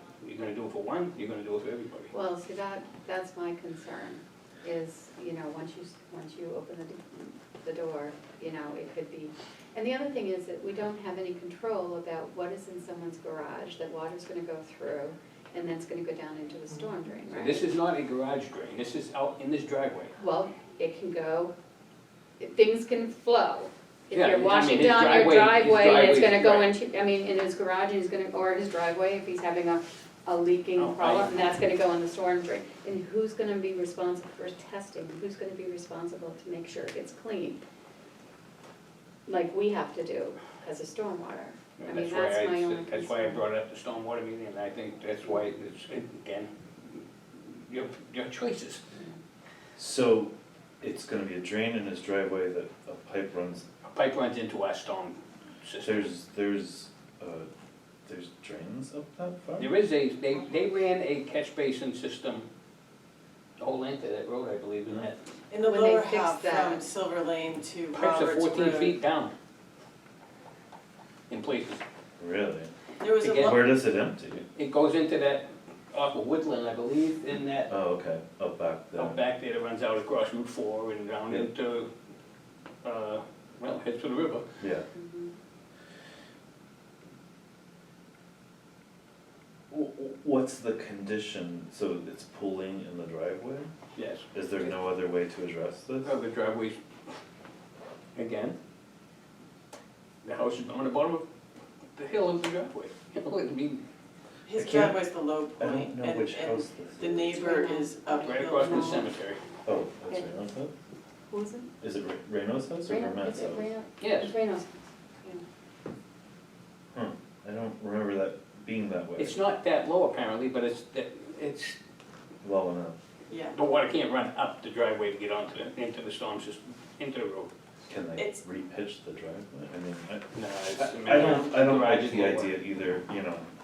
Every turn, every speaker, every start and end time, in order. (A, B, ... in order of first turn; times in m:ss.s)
0:00.2-0:02.1 A
0:02.1-0:17.6 B
0:17.3-0:20.1 A
0:20.2-0:21.5 B
0:22.4-0:37.6 B
0:24.1-0:26.7 A
0:30.8-0:31.6 A
0:39.2-0:43.4 B
0:41.8-0:48.8 A
0:49.8-0:53.6 C
0:53.8-0:56.0 A
0:55.8-0:57.5 C
0:58.0-0:59.7 C
0:59.6-1:02.5 A
1:03.6-1:05.2 A
1:05.5-1:09.0 D
1:05.6-1:06.8 B
1:07.9-1:09.3 A
1:11.3-1:11.8 A
1:12.2-1:12.7 C
1:13.0-1:13.7 D
1:13.2-1:13.6 A
1:13.3-1:14.4 C
1:14.6-1:17.7 A
1:17.7-1:19.2 C
1:19.0-1:21.9 A
1:22.8-1:24.5 A
1:24.6-1:24.9 C
1:24.9-1:25.3 B
1:29.7-1:33.7 C
1:33.9-1:34.6 A
1:34.3-1:36.1 C
1:36.0-1:36.8 A
1:38.1-1:38.6 A
1:40.2-1:41.2 A
1:41.9-1:43.8 A
1:44.4-1:49.1 D
1:44.6-1:45.0 C
1:45.6-1:47.3 C
1:47.3-1:49.0 B
1:48.2-1:49.4 A
1:49.6-1:50.7 C
1:51.3-1:51.7 B
1:51.8-1:53.7 C
1:52.8-1:55.4 B
1:54.0-1:54.3 A
1:56.9-1:59.4 C
1:59.2-2:01.8 A
2:02.4-2:03.0 C
2:03.3-2:03.6 D
2:03.5-2:07.5 A
2:07.9-2:13.5 C
2:10.3-2:12.5 A